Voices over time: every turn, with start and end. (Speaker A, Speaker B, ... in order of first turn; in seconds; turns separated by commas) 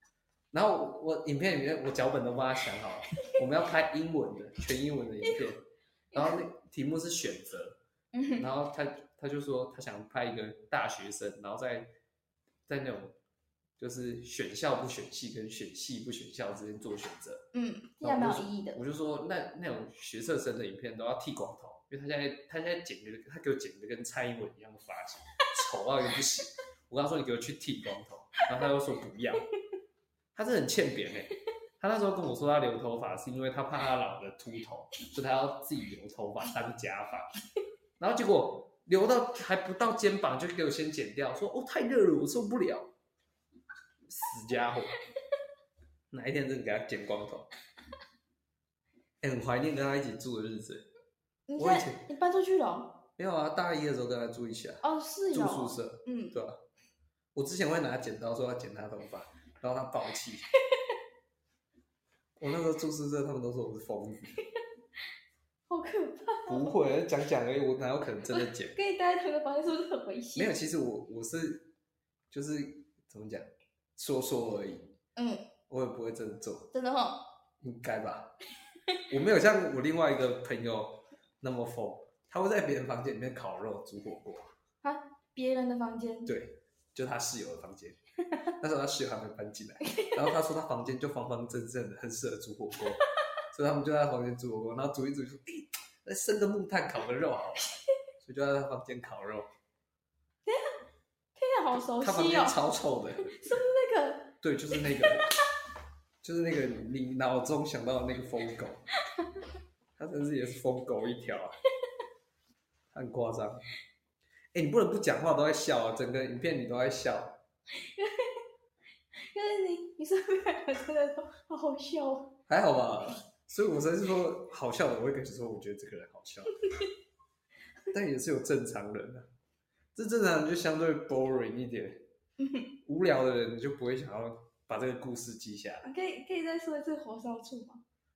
Speaker A: 0.5-7.8, Speaker B: 8.1-8.5, Speaker A: 8.4-11.9, Speaker A: 12.7-13.2, Speaker A: 13.8-17.4, Speaker B: 17.5-18.8, Speaker A: 18.0-29.5, Speaker A: 30.3-37.3, Speaker A: 38.0-42.9, Speaker A: 44.0-45.0, Speaker A: 46.1-47.5, Speaker A: 49.2-50.9, Speaker B: 51.5-53.0, Speaker A: 51.6-52.1, Speaker A: 53.2-56.6, Speaker B: 54.8-56.4, Speaker A: 57.3-60.5, Speaker B: 60.7-61.0, Speaker A: 62.4-64.4, Speaker B: 65.7-66.7, Speaker A: 66.5-68.8, Speaker B: 68.3-70.5, Speaker A: 70.3-71.7, Speaker A: 72.3-74.9, Speaker B: 75.2-75.5, Speaker A: 75.7-76.7, Speaker B: 76.7-77.2, Speaker A: 77.6-78.3, Speaker A: 79.1-84.5, Speaker B: 84.8-86.3, Speaker A: 86.2-88.0, Speaker A: 88.5-97.7, Speaker A: 98.2-99.5, Speaker B: 100.5-100.8, Speaker B: 101.3-102.6, Speaker A: 102.0-103.4, Speaker B: 103.2-105.4, Speaker A: 104.4-105.3, Speaker A: 106.2-108.8, Speaker B: 109.1-109.4, Speaker A: 110.0-111.6, Speaker A: 112.9-113.7, Speaker A: 114.5-117.4, Speaker B: 117.7-118.4, Speaker B: 119.1-122.3, Speaker A: 122.5-126.6, Speaker A: 127.9-129.3, Speaker A: 129.9-132.1, Speaker B: 132.4-132.7, Speaker A: 132.8-135.9, Speaker B: 135.8-137.8